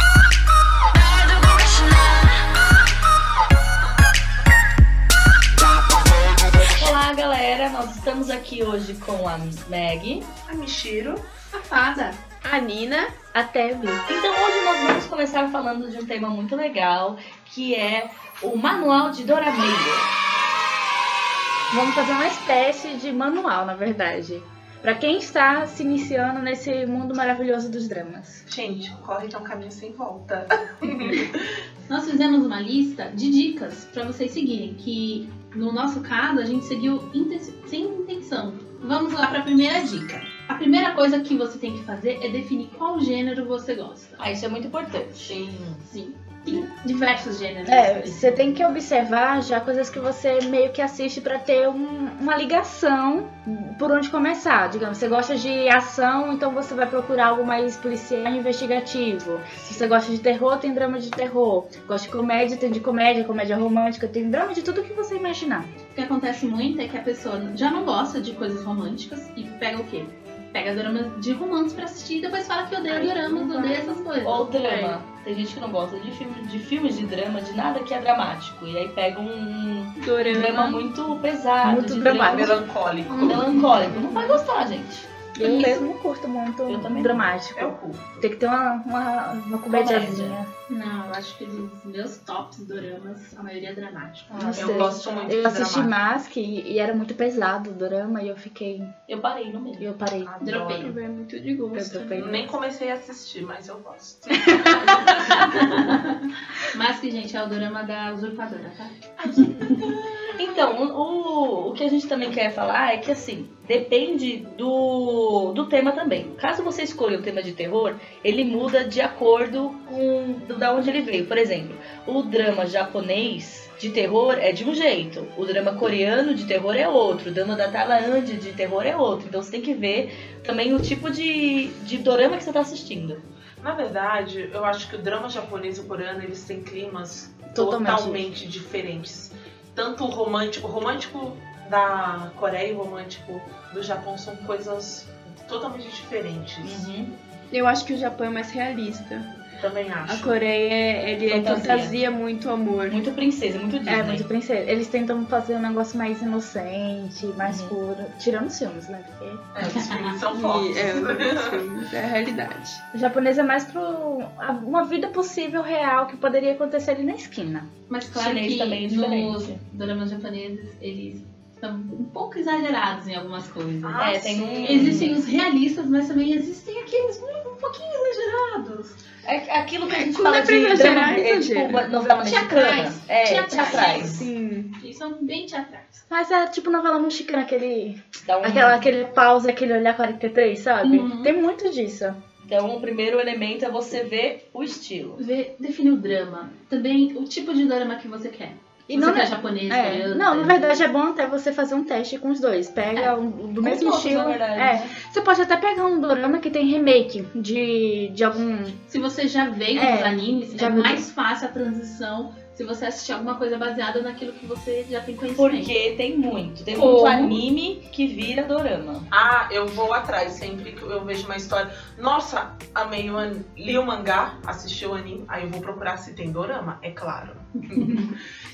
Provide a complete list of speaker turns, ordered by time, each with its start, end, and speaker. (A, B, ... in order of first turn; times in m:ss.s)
0:01.0-0:02.4 A
0:06.6-0:10.3 B
0:10.5-0:11.3 C
0:11.5-0:12.2 D
0:12.4-0:13.2 A
0:13.3-0:14.0 E
0:14.1-0:20.1 B
0:21.7-0:28.4 E
0:28.5-0:31.6 C
0:31.9-0:44.2 D
0:44.2-0:45.4 B
0:45.3-0:45.9 C
0:45.9-0:48.6 D
0:47.7-1:05.7 E
1:05.9-1:14.9 D
1:12.9-1:13.8 E
1:14.2-1:22.6 B
1:20.0-1:20.8 A
1:21.6-1:22.6 E
1:22.2-1:23.7 C
1:23.2-1:25.1 B
1:23.2-1:23.7 D
1:25.4-1:30.5 E
1:25.4-1:25.8 A
1:26.7-1:27.2 B
1:27.6-1:28.3 C
1:29.7-1:30.4 B
1:30.7-1:35.3 D
1:34.3-1:34.9 B
1:34.4-1:39.0 E
1:34.6-1:35.9 C
1:39.1-1:39.9 B
1:39.8-1:40.3 E
1:40.2-1:40.9 C
1:40.4-1:41.0 D
1:40.8-1:42.4 A
1:41.7-1:42.5 E
1:42.1-1:46.0 C
1:44.4-1:45.4 E
1:45.3-1:49.8 D
1:49.3-1:50.4 A
1:50.4-2:13.2 B
2:13.6-2:26.9 C
2:17.5-2:18.2 E
2:26.6-2:27.1 B
2:27.5-2:29.3 A
2:29.6-2:30.4 C
2:30.1-2:33.0 A
2:31.3-2:31.9 B
2:32.9-2:34.3 B
2:33.9-2:39.4 E
2:37.4-2:37.8 B
2:39.5-2:41.7 C
2:39.6-2:40.2 D
2:40.3-2:42.8 A
2:42.9-2:47.7 E
2:47.9-2:54.1 D
2:48.1-2:49.6 B
2:53.8-2:55.2 C
2:54.0-2:55.2 B
2:54.6-2:59.0 D
2:59.2-3:04.2 B
3:00.0-3:02.2 E
3:00.7-3:01.7 A
3:02.2-3:06.0 D
3:03.6-3:04.7 E
3:03.7-3:04.0 C
3:06.1-3:12.2 E
3:08.2-3:08.8 B
3:10.8-3:11.3 D
3:12.5-3:15.2 B
3:15.2-3:20.8 D
3:18.9-3:28.8 E
3:23.6-3:24.9 B
3:28.9-3:35.8 D
3:29.8-3:31.0 E
3:35.4-3:39.1 B
3:36.7-3:37.4 D
3:39.1-3:48.1 C
3:47.7-3:48.2 D